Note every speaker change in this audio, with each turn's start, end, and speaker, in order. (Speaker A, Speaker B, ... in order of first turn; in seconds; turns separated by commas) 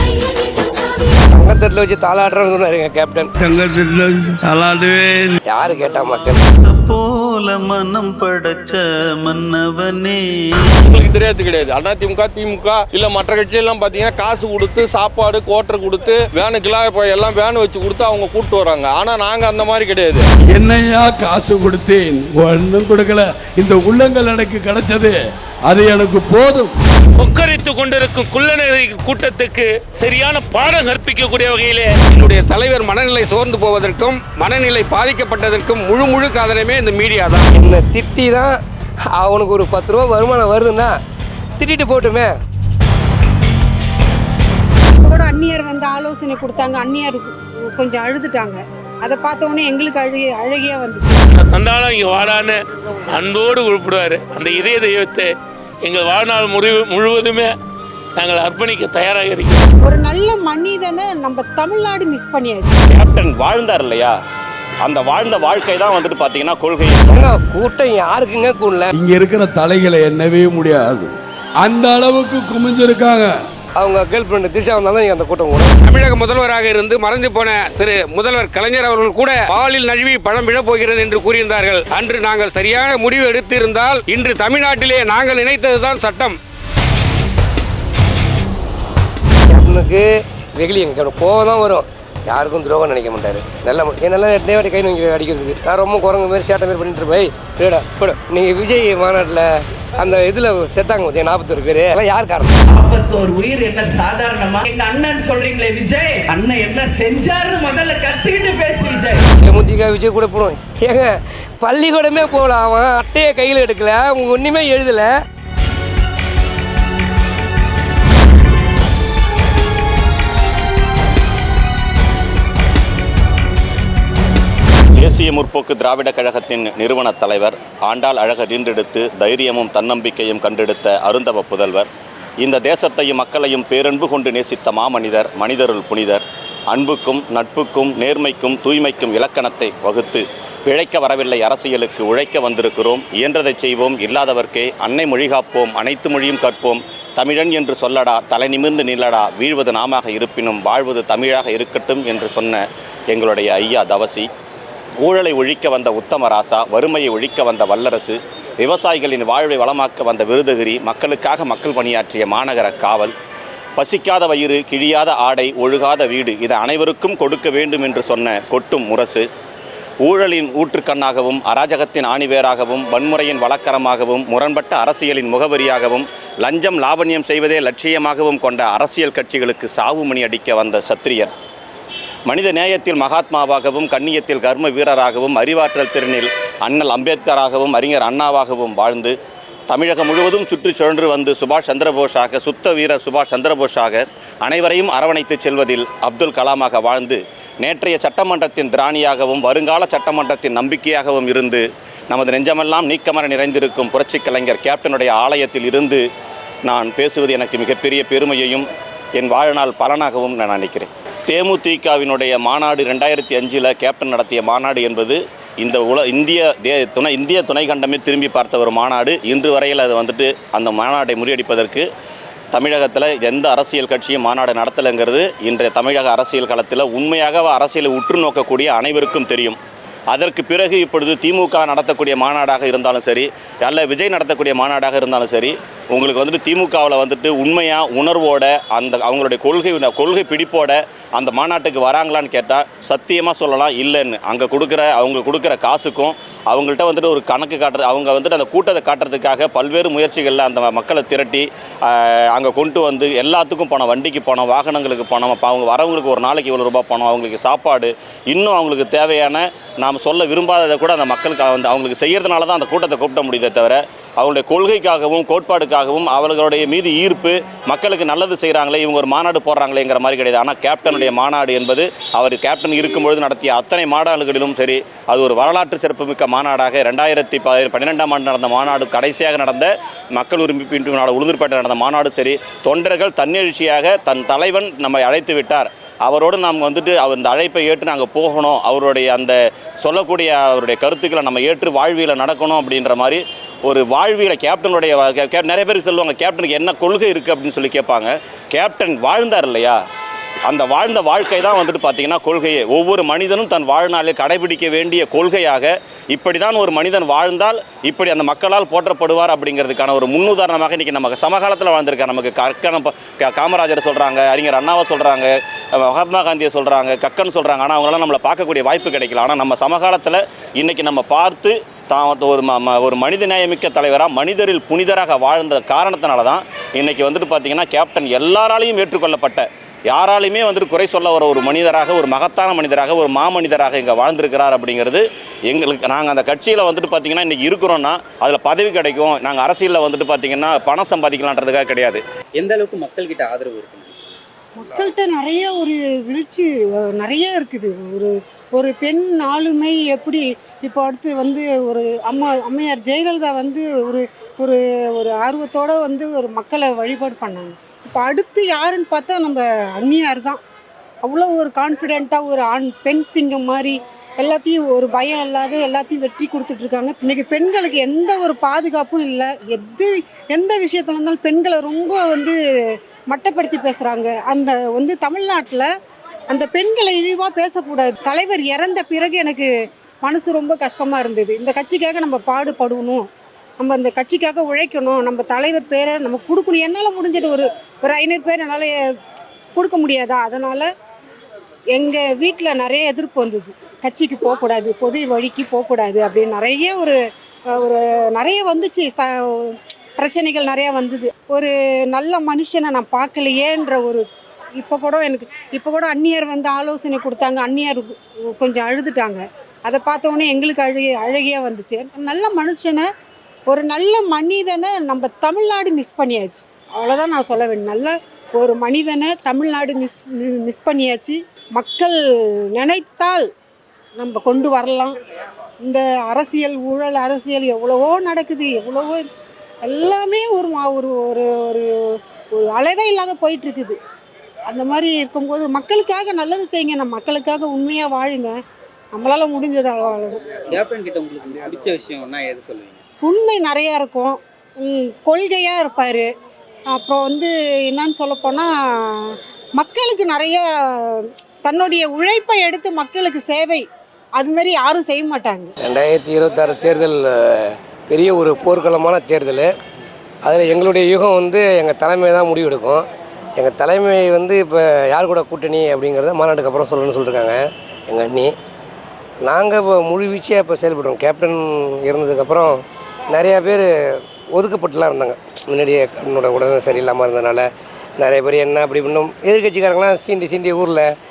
Speaker A: 1.3-3.3, Speaker B: 3.4-5.3, Speaker A: 5.4-6.4, Speaker C: 6.6-11.0, Speaker D: 10.8-20.2, Speaker B: 20.5-25.1, Speaker B: 25.7-26.7, Speaker E: 27.2-31.9, Speaker F: 32.1-37.5, Speaker A: 37.5-41.0, Speaker A: 41.6-42.3, Speaker G: 45.0-51.2, Speaker E: 51.3-52.6, Speaker E: 53.1-55.3, Speaker E: 55.8-57.5, Speaker E: 58.2-59.7, Speaker G: 59.8-62.8, Speaker H: 62.9-64.1, Speaker H: 64.8-67.2, Speaker A: 67.1-68.9, Speaker B: 68.9-73.3, Speaker A: 73.8-75.7, Speaker F: 75.8-86.3, Speaker A: 89.5-102.6, Speaker I: 102.7-109.2, Speaker A: 109.4-115.1, Speaker H: 124.9-131.9, Speaker H: 132.4-154.3, Speaker H: 155.0-163.1, Speaker H: 163.8-169.3, Speaker H: 170.0-181.3, Speaker H: 182.3-189.2, Speaker H: 189.7-206.0, Speaker H: 206.7-208.7, Speaker H: 209.2-221.9, Speaker H: 222.5-229.6, Speaker H: 230.1-299.8, Speaker H: 300.5-342.0, Speaker J: 342.4-344.0, Speaker G: 344.6-360.4, Speaker G: 361.0-372.4, Speaker G: 373.1-375.7, Speaker G: 376.3-379.5, Speaker G: 380.0-383.1, Speaker G: 383.6-388.7, Speaker G: 389.5-390.7, Speaker G: 391.7-404.0, Speaker G: 404.6-412.9, Speaker G: 413.5-422.0, Speaker G: 422.5-423.3, Speaker G: 424.0-425.0, Speaker G: 425.6-429.0, Speaker G: 429.6-433.8, Speaker G: 434.5-438.4, Speaker G: 438.9-440.4, Speaker J: 440.5-442.8, Speaker G: 443.0-446.1, Speaker G: 446.7-453.6, Speaker G: 454.2-455.5, Speaker A: 455.6-459.5, Speaker A: 460.2-462.9, Speaker A: 463.4-468.3, Speaker A: 469.2-480.9